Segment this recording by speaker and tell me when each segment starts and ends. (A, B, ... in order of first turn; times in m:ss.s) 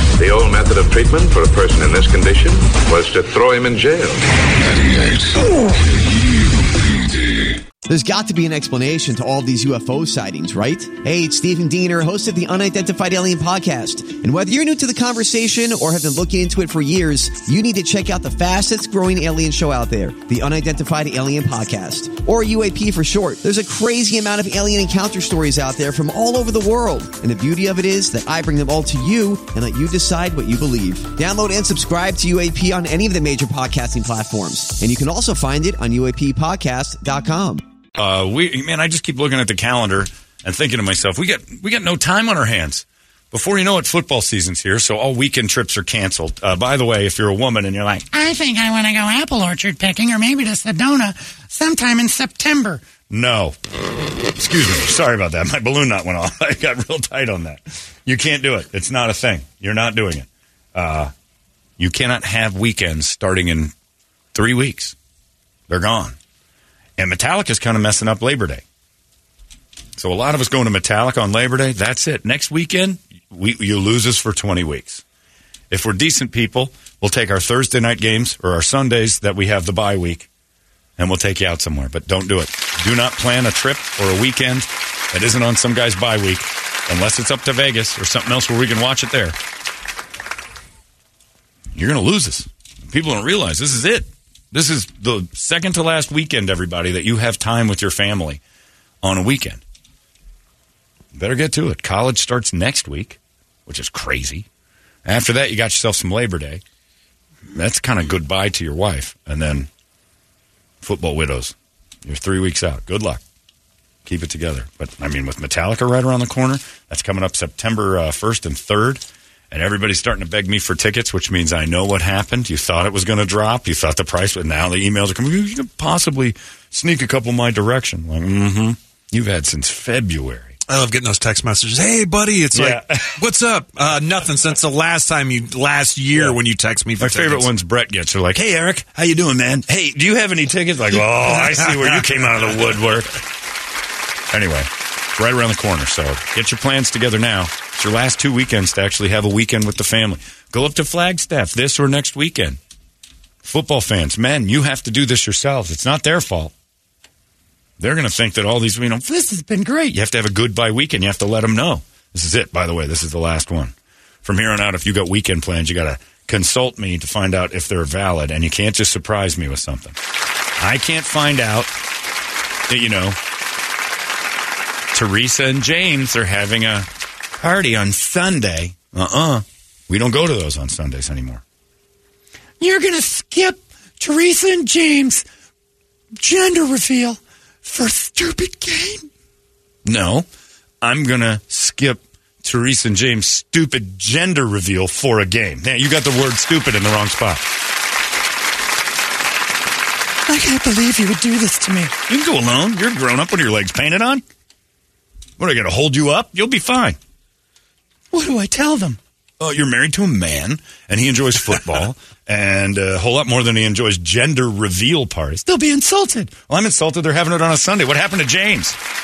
0:00.2-0:04.2 A
0:04.5-0:07.6 B
0:07.8-0:37.6 C
0:37.9-0:48.0 D
0:48.1-0:52.8 E
0:53.1-0:53.6 D
0:54.3-1:01.1 D
1:01.8-1:03.7 D
1:04.3-1:04.9 D
1:05.7-1:06.2 D
1:07.0-1:08.6 D
1:10.0-1:15.0 D
1:15.7-1:20.3 D
1:21.0-1:29.4 D
1:31.7-1:38.4 D
1:39.0-1:39.6 D
1:41.1-1:44.5 D
1:45.0-1:46.6 D
1:47.5-1:49.7 D
1:50.8-1:51.5 D
1:52.0-1:53.2 D
1:54.0-2:10.6 D
2:10.7-2:17.5 F
2:12.5-2:13.1 D
2:17.0-2:23.2 D
2:24.3-2:32.6 D
2:33.4-2:36.5 D
2:37.8-2:50.0 D
2:39.3-2:39.6 E
2:50.6-2:51.7 D
2:52.7-2:53.2 D
2:54.9-3:01.4 D
3:02.6-3:05.2 E
3:06.2-3:07.2 D
3:06.8-3:07.0 E
3:07.7-3:08.9 E
3:08.4-3:08.7 D
3:09.8-3:10.2 D
3:10.8-3:17.4 D
3:20.2-3:24.2 D
3:25.4-3:27.0 D
3:28.1-3:38.8 D